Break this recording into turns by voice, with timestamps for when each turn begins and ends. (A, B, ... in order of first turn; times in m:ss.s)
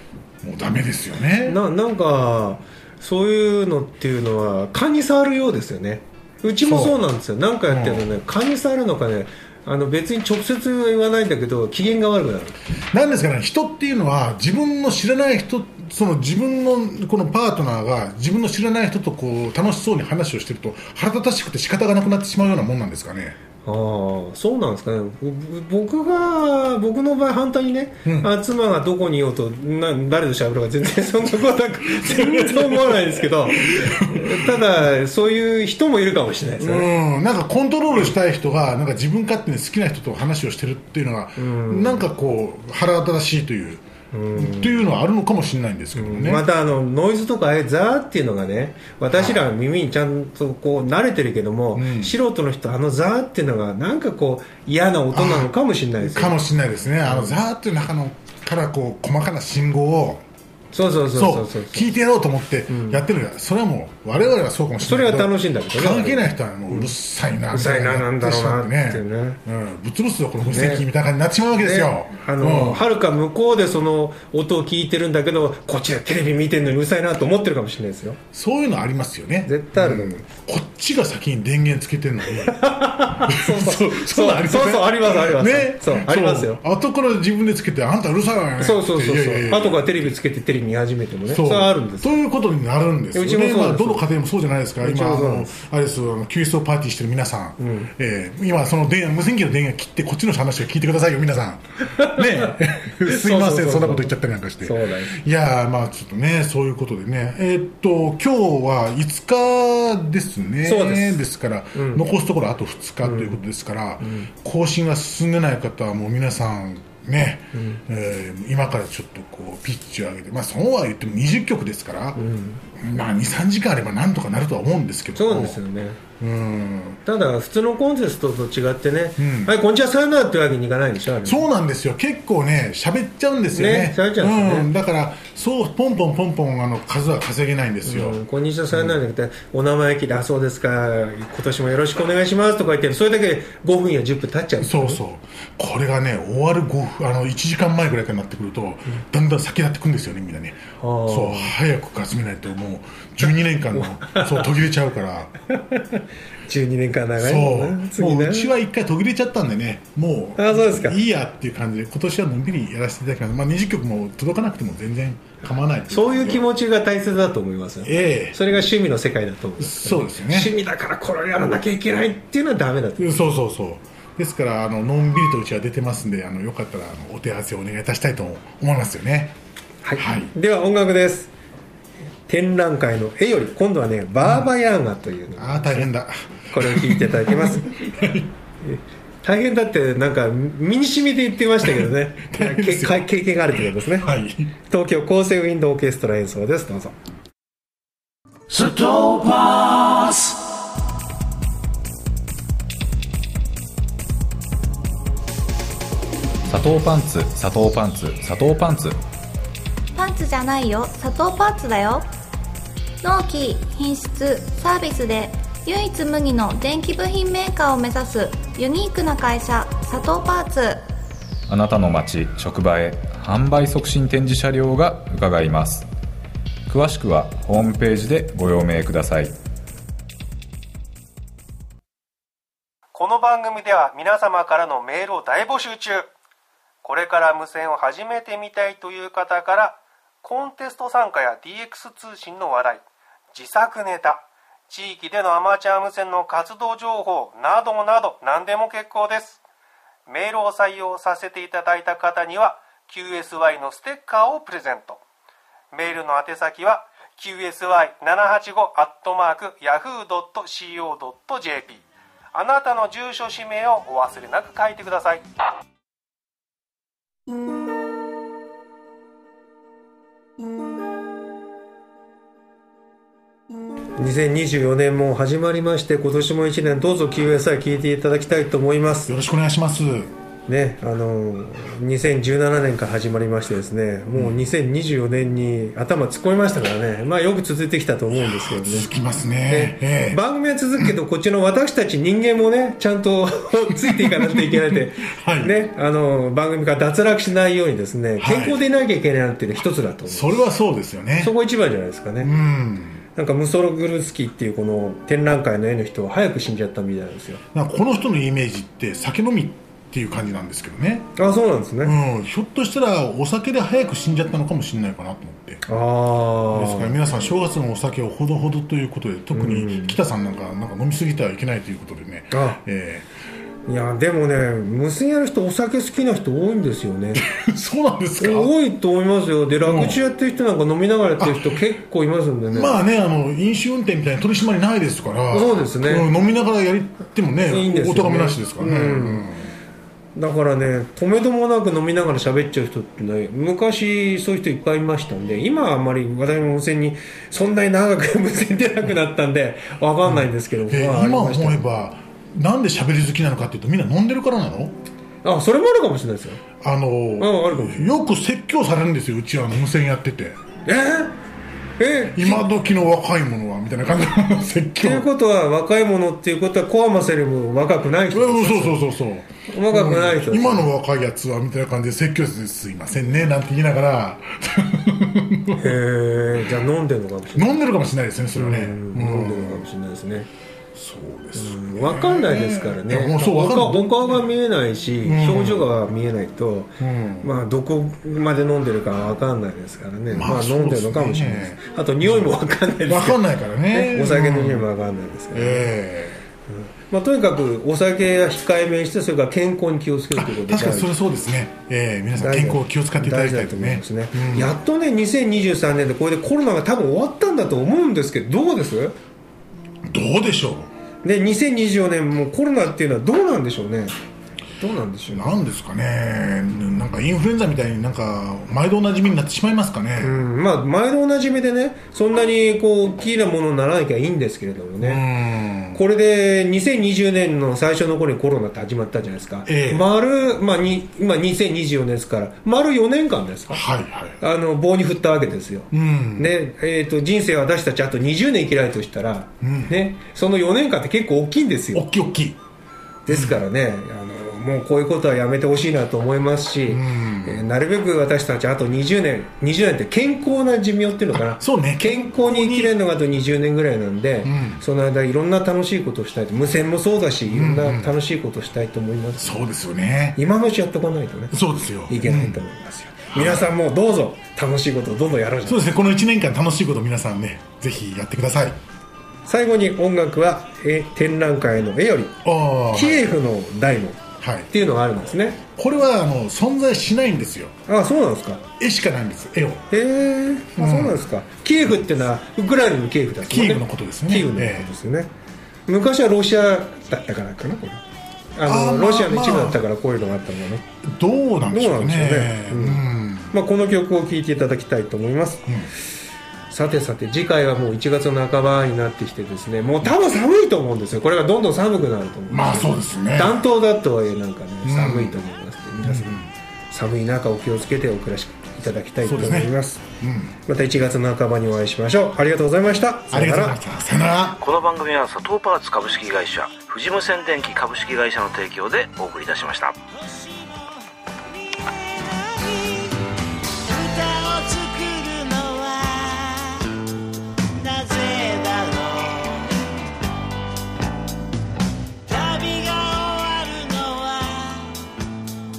0:00.4-0:01.6 A
0:01.4-0:12.6 B
0:06.6-0:07.0 A
0:07.7-0:08.1 A
0:12.9-0:23.4 A
0:23.6-0:36.9 B
0:28.0-0:28.3 A
0:31.8-0:34.6 A
0:36.6-0:46.4 A
0:41.4-0:42.1 B
0:44.1-0:44.8 B
0:45.9-0:56.4 B
0:49.1-0:49.5 A
0:51.7-0:52.1 A
0:55.1-1:00.2 A
0:57.0-0:57.4 B
1:00.7-1:01.9 B
1:01.1-1:12.8 A
1:02.7-1:03.0 B
1:04.8-1:06.9 B
1:07.5-1:09.4 B
1:10.4-1:10.8 B
1:11.6-1:18.2 B
1:18.3-1:30.1 A
1:19.4-1:20.2 B
1:22.4-1:26.6 B
1:28.6-1:32.1 B
1:31.3-2:02.2 A
1:33.1-1:34.0 B
1:34.8-1:35.5 B
1:37.6-1:37.9 B
1:41.9-1:42.5 B
1:43.0-1:45.2 B
1:50.6-1:51.2 B
1:51.7-1:52.0 B
1:53.0-1:53.4 B
1:54.0-1:54.3 B
1:57.5-1:57.8 B
2:02.2-2:02.6 B
2:02.8-2:05.6 A
2:05.1-2:06.0 B
2:06.2-2:07.0 A
2:07.0-2:11.4 B
2:09.2-2:09.5 A
2:11.2-2:18.2 A
2:13.5-2:14.7 B
2:17.8-2:25.0 B
2:24.6-2:35.3 A
2:30.8-2:31.5 B
2:33.8-2:34.5 B
2:35.7-2:38.5 B
2:37.2-2:46.4 A
2:40.4-2:41.0 B
2:45.9-2:53.2 B
2:47.8-2:48.4 A
2:49.6-2:50.5 A
2:53.0-2:59.4 A
2:59.8-3:01.3 B
3:00.0-3:00.3 A
3:02.3-3:05.9 B
3:04.2-3:04.5 A
3:05.4-3:08.3 A
3:06.5-3:07.7 B
3:08.6-3:14.1 B
3:11.6-3:14.5 A
3:14.7-3:16.9 B
3:18.5-3:20.3 C
3:26.5-3:29.0 D
3:29.9-3:32.1 E
3:33.0-3:40.8 E
3:41.5-3:45.9 D
3:46.7-3:49.3 D
3:52.9-3:56.1 B
3:56.8-4:09.4 B
4:10.1-4:15.0 B
4:15.7-4:25.2 B
4:34.0-4:39.1 B
4:39.0-4:40.1 A
4:40.5-4:48.9 B
4:44.1-4:44.4 A
4:48.1-4:50.2 A
4:49.5-5:00.5 B
4:53.7-4:55.6 A
4:58.2-4:58.6 A
5:00.0-5:01.3 A
5:01.2-5:02.3 B
5:02.2-5:03.0 A
5:03.2-5:07.4 B
5:07.5-5:11.1 A
5:11.2-5:12.0 B
5:11.8-5:15.6 A
5:15.6-5:16.9 B
5:16.5-5:23.1 A
5:19.3-5:20.0 B
5:22.3-5:22.6 B
5:23.6-5:27.2 B
5:27.2-5:28.5 A
5:28.2-5:32.8 B
5:29.6-5:30.0 A
5:31.2-5:31.6 A
5:32.5-5:39.5 A
5:35.3-5:36.1 B
5:37.5-5:39.2 B
5:40.2-5:51.6 B
5:50.0-5:54.7 A
5:55.2-5:56.4 B
5:56.6-6:00.4 A
5:57.2-5:57.9 B
6:00.6-6:01.2 B
6:01.8-6:02.4 B
6:02.1-6:05.1 A
6:04.8-6:08.8 B
6:08.1-6:15.8 A
6:09.5-6:10.7 B
6:15.6-6:17.6 B
6:17.3-6:19.6 A
6:18.3-6:20.3 B
6:20.7-6:24.3 A
6:21.3-6:33.2 B
6:25.0-6:25.6 A
6:26.8-6:27.3 A
6:30.1-6:32.3 A
6:32.8-6:34.7 A
6:33.7-6:35.7 B
6:35.3-6:36.2 A
6:36.5-6:40.9 B
6:40.1-6:44.6 A
6:42.2-6:48.9 B
6:49.8-6:50.7 A
6:51.0-6:53.9 B
6:54.6-6:55.4 B
6:55.1-7:00.2 A
7:00.0-7:05.0 B
7:04.8-7:05.8 A
7:05.7-7:13.6 B
7:09.4-7:09.8 A
7:13.5-7:14.2 A
7:14.2-7:21.8 B
7:15.7-7:16.3 A
7:19.4-7:19.7 A
7:21.7-7:22.4 A
7:23.0-7:39.4 B
7:23.1-7:23.4 A
7:26.7-7:27.4 A
7:31.1-7:32.7 A
7:34.2-7:34.6 A
7:37.3-7:37.9 A
7:39.2-7:40.2 A
7:40.2-7:45.6 B
7:41.3-7:42.4 A
7:43.1-7:43.5 A
7:45.4-7:48.6 A
7:49.2-7:52.2 B
7:52.2-7:53.1 A
7:52.7-7:55.4 B
7:54.2-7:54.5 A
7:55.6-7:57.5 A
7:57.7-7:58.4 B
7:58.6-7:59.7 A
7:59.7-8:05.1 B
8:00.6-8:01.0 A
8:03.2-8:04.7 A
8:05.7-8:07.8 B
8:08.4-8:10.6 B
8:08.4-8:09.6 A
8:10.8-8:13.3 A
8:11.5-8:15.5 B
8:16.5-8:29.8 B
8:22.3-8:23.4 A
8:24.6-8:25.2 A
8:25.8-8:26.3 A
8:29.0-8:30.4 A
8:30.4-8:33.6 B
8:33.1-8:34.4 A
8:34.4-8:39.8 F
8:39.9-8:43.1 C
8:43.6-8:46.7 C
8:47.5-8:49.6 C
8:52.0-8:54.8 C